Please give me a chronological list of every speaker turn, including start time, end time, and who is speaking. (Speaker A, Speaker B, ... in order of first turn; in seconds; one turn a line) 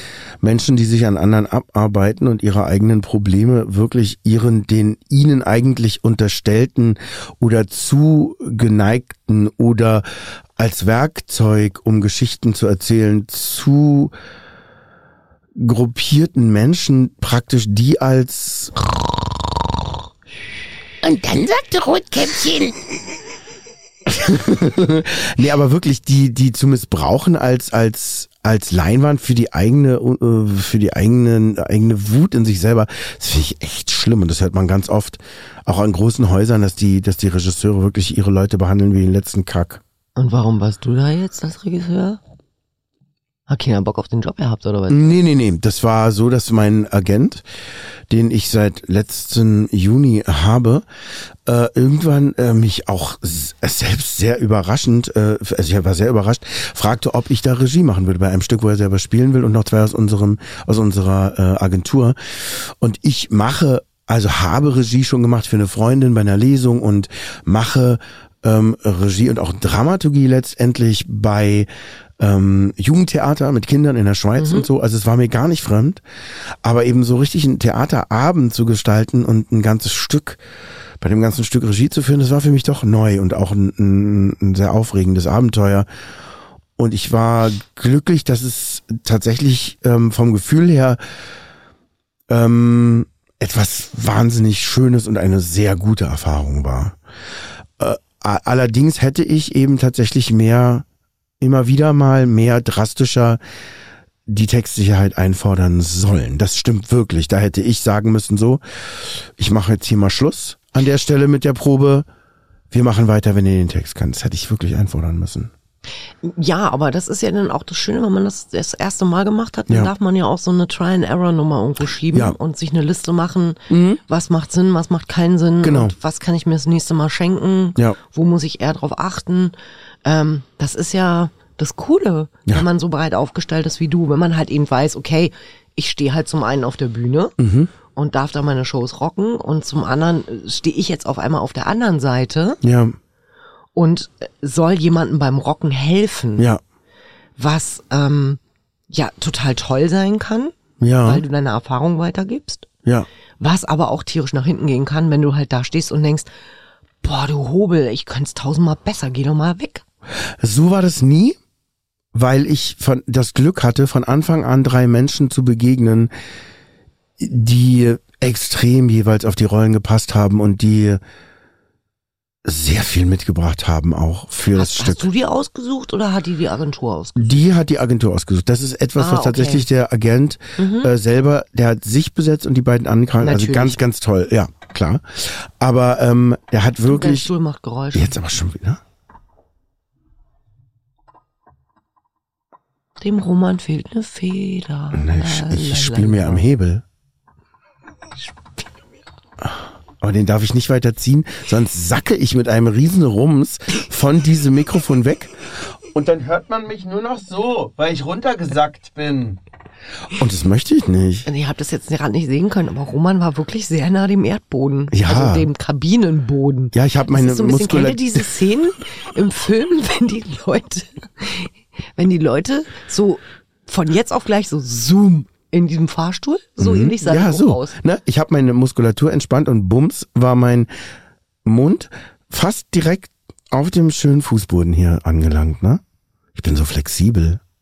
Speaker A: 0.4-14.1
Speaker A: 15.6-18.9
Speaker A: 21.0-22.9
Speaker A: 24.1-39.8
Speaker B: 40.1-42.2
Speaker B: 43.5-45.1
Speaker A: 44.9-47.4
Speaker A: 48.1-50.8
Speaker A: 51.4-71.7
Speaker A: 72.2-76.0
Speaker B: 74.4-74.7
Speaker A: 76.6-80.4
Speaker A: 81.0-85.9
Speaker A: 86.8-91.0
Speaker A: 92.3-97.0
Speaker A: 97.8-100.8
Speaker A: 101.4-103.4
Speaker A: 104.3-112.1
Speaker A: 112.7-115.5
Speaker B: 116.2-137.4
Speaker A: 123.7-124.0
Speaker A: 125.6-125.9
Speaker A: 137.4-137.7
Speaker B: 137.9-142.6
Speaker A: 142.6-143.0
Speaker B: 143.7-146.4
Speaker B: 147.4-152.7
Speaker A: 150.8-151.2
Speaker B: 153.4-156.3
Speaker B: 157.0-159.8
Speaker A: 160.2-161.4
Speaker A: 162.1-166.1
Speaker A: 167.2-171.0
Speaker A: 172.4-175.0
Speaker B: 174.5-177.5
Speaker A: 177.2-187.3
Speaker B: 179.0-179.7
Speaker B: 180.6-180.9
Speaker B: 183.2-183.8
Speaker B: 186.8-188.2
Speaker A: 187.9-188.8
Speaker B: 193.0-196.4
Speaker A: 194.9-196.8
Speaker A: 199.4-209.4
Speaker A: 210.1-211.3
Speaker B: 211.2-227.7
Speaker A: 214.9-215.5
Speaker A: 216.7-218.2
Speaker A: 226.6-230.7
Speaker A: 231.4-235.8
Speaker A: 236.3-237.4